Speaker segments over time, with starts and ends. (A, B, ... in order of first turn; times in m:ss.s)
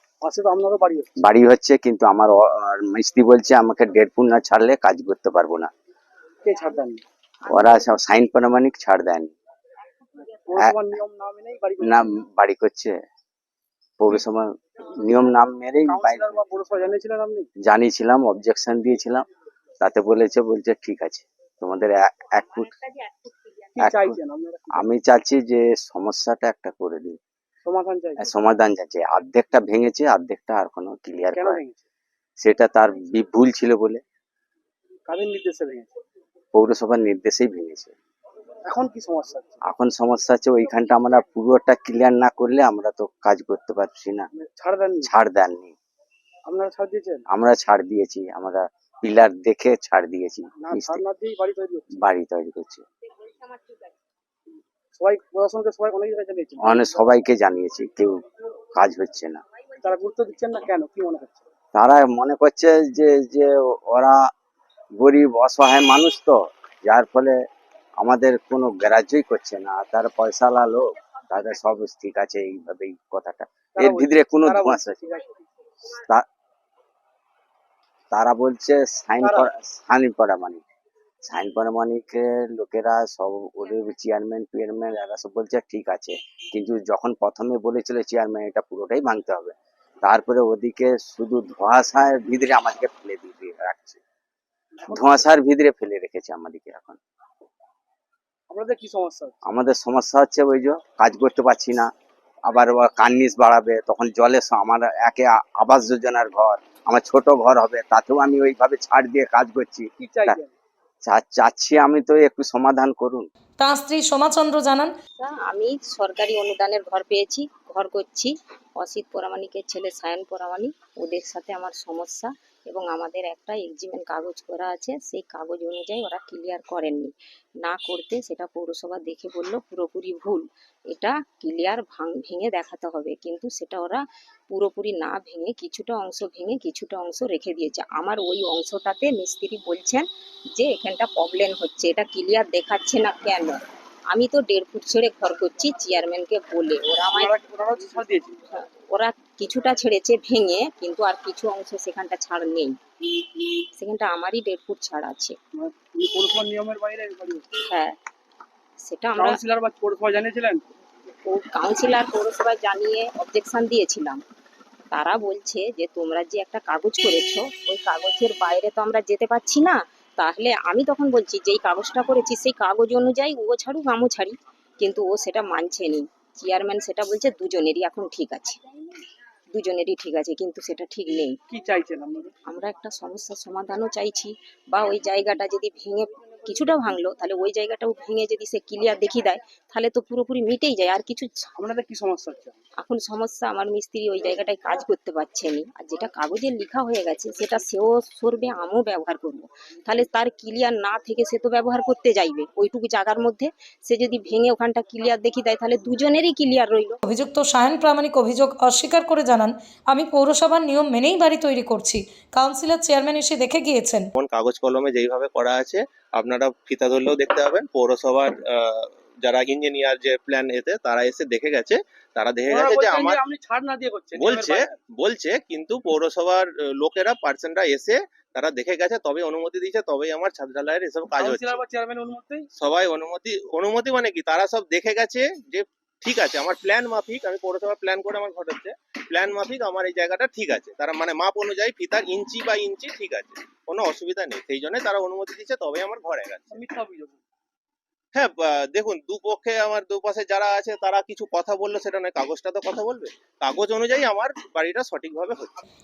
0:00.2-0:01.1 A
0:01.2-0:05.7 B
0:06.4-0:07.0 A
0:07.4-0:09.3 B
0:10.5-0:12.1 A
0:11.8-0:13.0 B
0:14.0-0:14.5 B
0:15.0-0:16.4 B
0:15.8-0:17.5 A
0:17.6-0:19.2 B
0:19.8-0:22.8 B
0:23.0-0:23.5 C
0:23.7-0:24.9 A
0:23.8-0:24.2 B
0:24.7-0:27.2 B
0:27.6-0:28.2 A
0:28.2-0:31.6 B
0:31.3-0:31.8 A
0:32.4-0:34.0 B
0:35.1-0:36.0 A
0:36.5-0:37.9 B
0:38.7-0:39.6 A
0:39.6-0:44.3 B
0:44.4-0:45.1 A
0:45.0-0:45.7 B
0:46.5-0:47.2 A
0:47.3-0:51.0 B
0:50.6-0:52.0 A
0:52.0-0:52.8 B
0:55.0-0:57.0 A
0:56.6-0:58.2 B
0:58.7-0:59.4 B
0:59.8-1:01.4 A
1:01.7-1:04.2 B
1:05.0-1:07.4 B
1:08.0-1:15.0 B
1:13.8-1:15.3 A
1:15.9-1:16.2 B
1:18.1-1:20.6 B
1:19.2-1:19.5 A
1:21.2-1:34.0 B
1:34.8-1:35.1 A
1:34.9-1:37.0 B
1:38.5-1:39.3 A
1:39.4-1:41.9 B
1:42.4-1:50.4 B
1:50.0-1:50.5 A
1:51.0-1:53.3 B
1:53.6-1:54.9 D
1:55.2-2:07.1 C
2:07.6-2:10.4 C
2:10.9-2:14.0 C
2:14.5-2:23.6 C
2:24.1-2:27.3 C
2:27.1-2:28.3 A
2:28.5-2:32.7 C
2:33.8-2:35.4 C
2:35.5-2:37.5 A
2:37.7-2:37.9 C
2:38.8-2:39.4 C
2:39.2-2:40.6 A
2:41.2-2:44.2 C
2:44.9-2:58.6 C
2:59.5-3:01.3 C
3:01.5-3:02.3 A
3:02.5-3:11.3 C
3:11.6-3:12.6 A
3:12.8-3:27.0 C
3:27.0-3:34.1 D
3:34.1-3:43.2 E
3:42.5-3:44.8 A
3:44.2-3:51.6 E
3:51.1-3:52.5 A
3:52.6-4:06.6 E
4:06.5-4:07.2 A
4:08.1-4:15.6 E